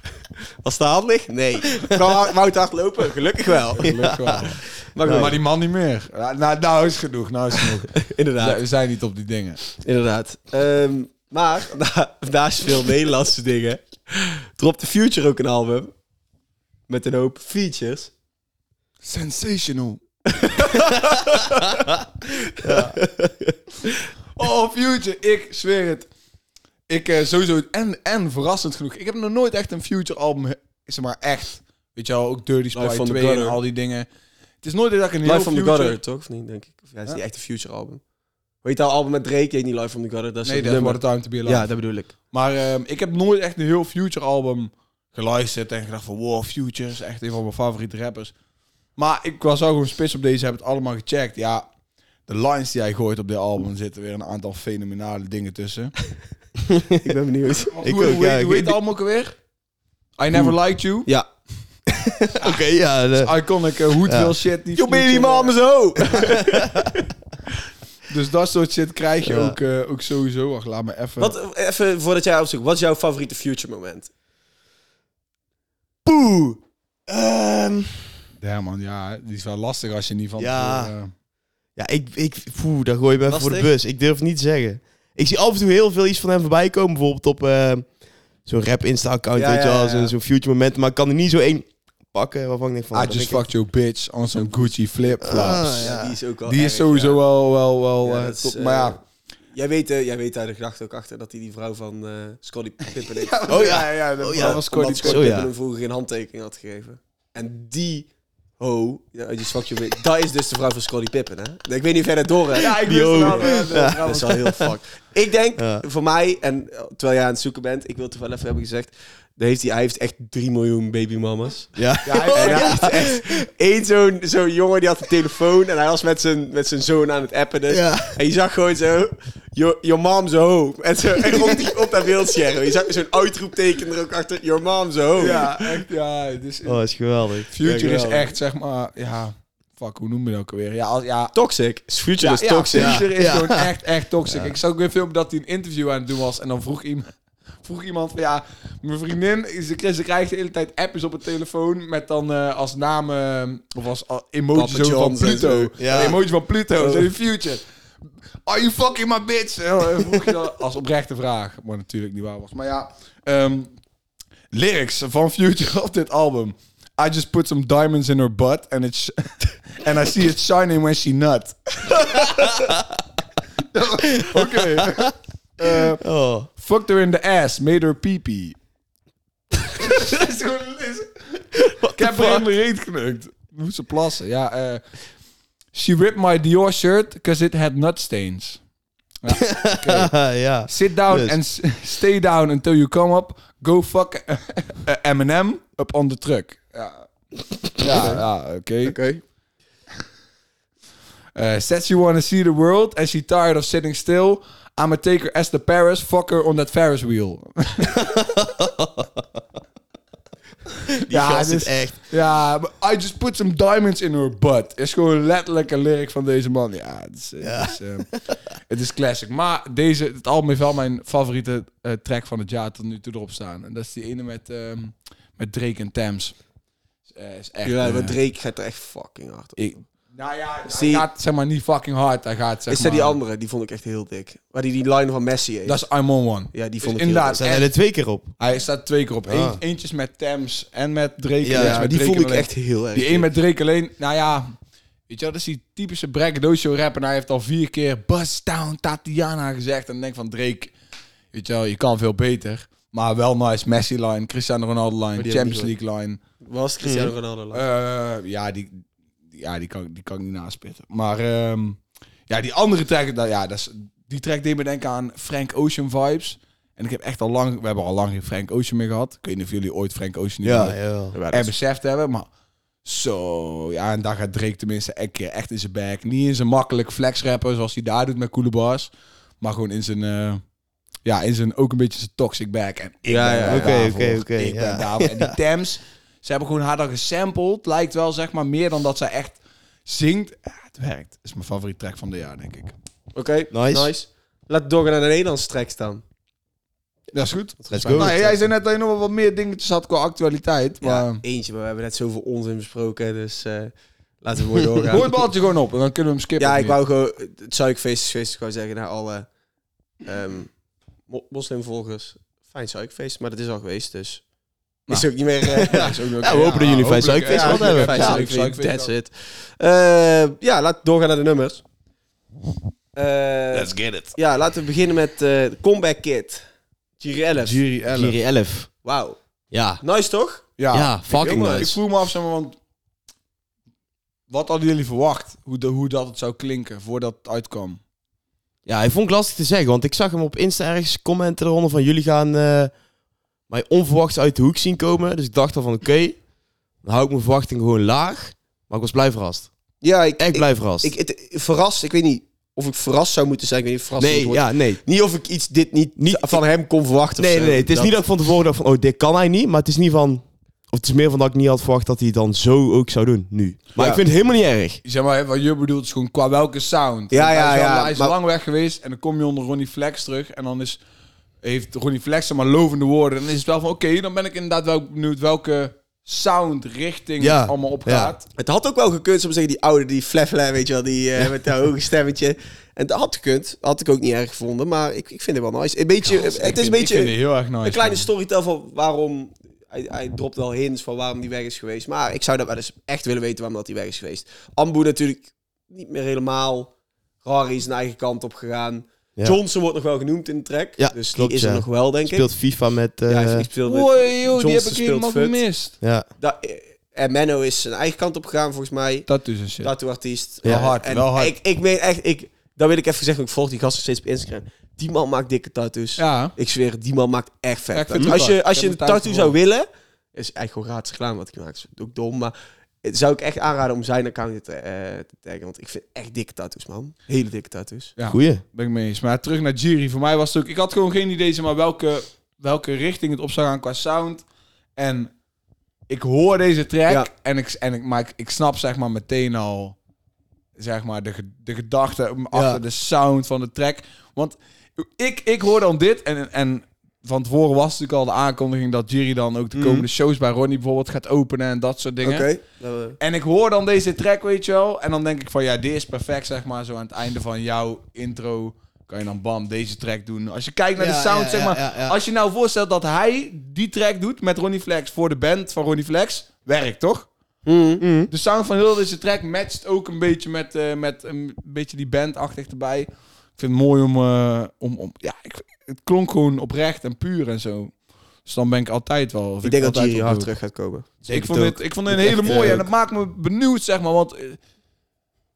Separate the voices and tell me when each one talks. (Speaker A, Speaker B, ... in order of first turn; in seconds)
Speaker A: 0.6-3.9, 4.8-5.4, 8.0-8.6, 9.8-15.9, 16.9-18.1, 20.3-21.7, 22.5-23.9, 32.7-33.6, 35.2-38.0, 38.6-42.1, 57.0-57.7, 64.8-67.0, 71.2-74.1, 83.3-83.7, 89.4-90.1, 94.3-97.2, 98.0-99.0, 99.5-135.4, 137.6-138.3, 141.3-143.0, 154.6-156.2, 156.8-157.1, 197.9-198.2, 198.8-199.2, 227.6-229.8, 230.7-231.1, 232.7-235.8, 236.5-237.5, 241.5-243.3, 255.2-255.7, 256.4-257.6, 271.1-271.5, 283.1-283.8, 293.1-296.0, 297.6-298.4, 300.8-305.1, 306.4-309.3, 310.0-310.5, 311.1-314.2, 314.9-316.5, 317.2-321.6, 322.9-326.4, 327.0-327.6, 328.8-329.2, 329.8-330.4, 331.1-331.8, 349.8-358.0, 363.8-364.0, 367.1-368.1, 378.4-387.1, 387.6-396.7, 397.2-402.3, 403.1-405.4, 406.2-409.1, 409.6-427.9, 452.0-453.0, 467.5-467.8, 479.4-480.9, 482.2-482.6
Speaker B: 3.7-9.7, 19.0-20.0, 24.4-26.1, 26.9-34.1, 34.6-36.0, 40.4-41.7, 42.3-48.3, 49.0-51.6, 52.3-55.9, 57.7-59.4, 60.2-61.1, 62.4-65.6, 68.1-71.3, 78.4-81.1, 92.9-95.8, 96.5-99.0, 103.1-105.4, 112.6-114.5, 122.1-123.0, 135.2-136.8, 137.5-141.3, 142.2-147.1, 147.6-157.6, 158.4-163.7, 164.5-172.8, 173.7-176.0, 176.6-178.6, 179.7-184.8, 185.7-188.6, 189.2-190.1, 190.7-197.1, 197.7-199.0, 201.3-208.3, 211.1-226.3, 227.1-228.2, 229.6-233.2, 235.7-237.7, 238.4-244.5, 245.1-250.7, 251.3-256.2, 257.5-258.8, 259.3-270.8, 271.3-272.3, 272.9-280.4, 281.1-292.7, 297.1-301.2, 304.9-306.8, 314.9-318.9, 323.5-324.1, 327.4-328.2, 330.6-332.5, 334.3-337.8, 364.8-370.8, 371.4-378.2, 386.0-388.1, 403.6-405.8, 409.1-409.7, 410.4-411.4, 416.0-416.4, 417.7-419.3, 428.0-434.2, 434.8-435.1, 435.9-439.8, 440.6-452.3, 453.0-467.1, 468.1-477.7, 478.2-480.3, 481.0-484.4
Speaker C: 3.8-4.4, 5.0-5.3, 22.6-22.9, 57.8-58.8, 61.9-63.3, 64.0-64.3, 66.1-66.9, 69.2-69.6, 76.0-78.1, 80.4-80.9, 81.8-87.9, 88.4-93.4, 95.2-96.2, 103.5-105.5, 112.8-114.0, 115.6-115.8, 121.8-123.3, 127.7-128.2, 135.2-135.5, 136.6-137.5, 142.7-143.7, 144.3-144.6, 155.8-156.2, 174.2-176.5, 181.8-182.4, 189.4-191.4, 208.0-209.2, 210.9-212.0, 217.4-218.1, 237.4-238.3, 239.2-239.6, 241.4-241.8, 255.2-255.5, 256.8-257.1, 270.4-271.1, 283.5-285.3, 293.5-293.9, 297.7-298.1, 304.8-305.2, 315.7-318.2, 327.9-328.7, 329.5-329.8, 330.7-331.8, 338.6-342.7, 343.5-346.2, 346.8-349.5, 350.2-350.9, 354.0-354.8, 356.0-356.4, 357.2-364.8, 377.2-378.1, 400.8-403.5, 405.8-406.1, 428.1-428.4, 442.3-442.6, 449.5-449.9, 460.8-462.0, 467.8-468.1, 481.1-482.6